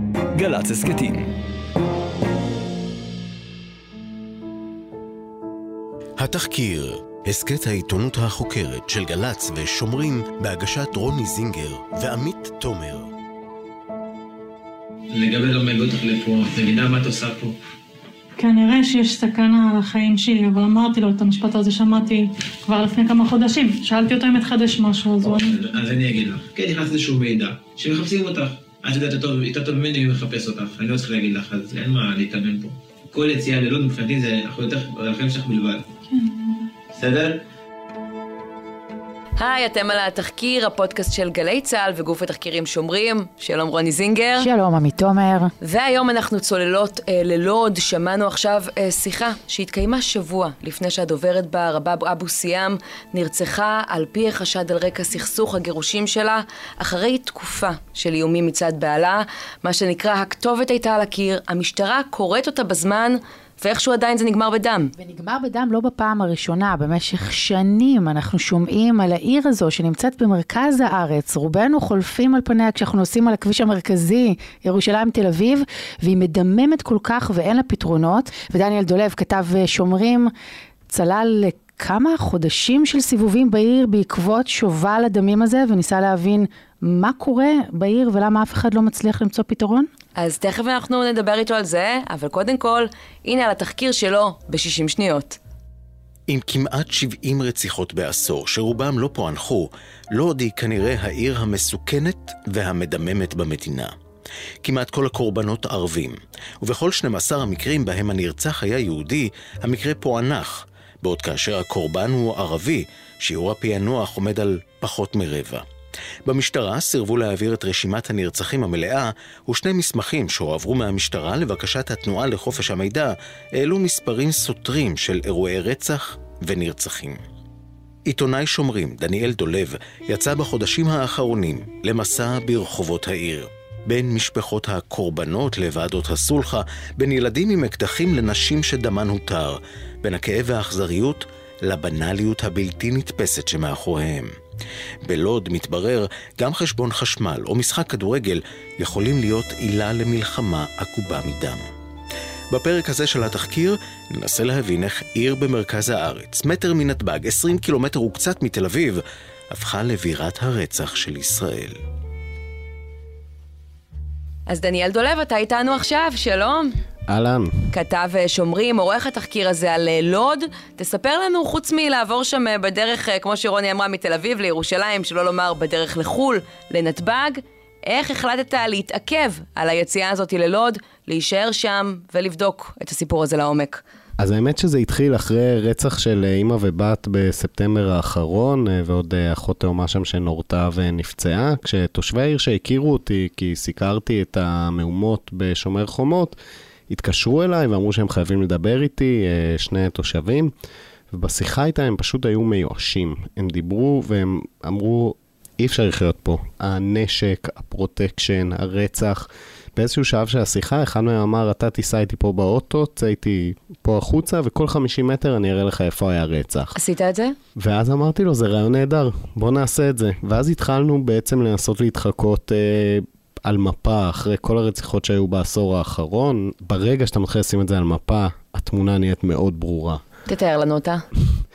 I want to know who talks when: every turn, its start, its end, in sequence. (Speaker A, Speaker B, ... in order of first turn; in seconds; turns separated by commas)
Speaker A: 6.2-13.1, Speaker B: 15.1-17.5, Speaker C: 18.4-25.5, Speaker B: 25.2-35.9, Speaker C: 36.1-36.7, Speaker B: 36.9-37.3, Speaker D: 39.4-44.5, Speaker E: 44.4-45.5, Speaker D: 45.6-64.9, Speaker E: 65.0-80.3, Speaker E: 80.9-89.9, Speaker D: 90.2-95.4, Speaker A: 96.3-103.9, Speaker A: 104.6-115.7, Speaker A: 116.3-127.2, Speaker A: 128.1-144.3, Speaker A: 145.1-151.6, Speaker A: 152.5-159.0, Speaker A: 159.5-161.8, Speaker D: 164.5-166.7, Speaker F: 167.1-167.5, Speaker D: 167.7-183.8, Speaker F: 184.2-196.3, Speaker F: 196.9-200.5, Speaker F: 201.1-216.7, Speaker D: 216.7-217.3, Speaker F: 217.6-230.0, Speaker D: 230.3-231.0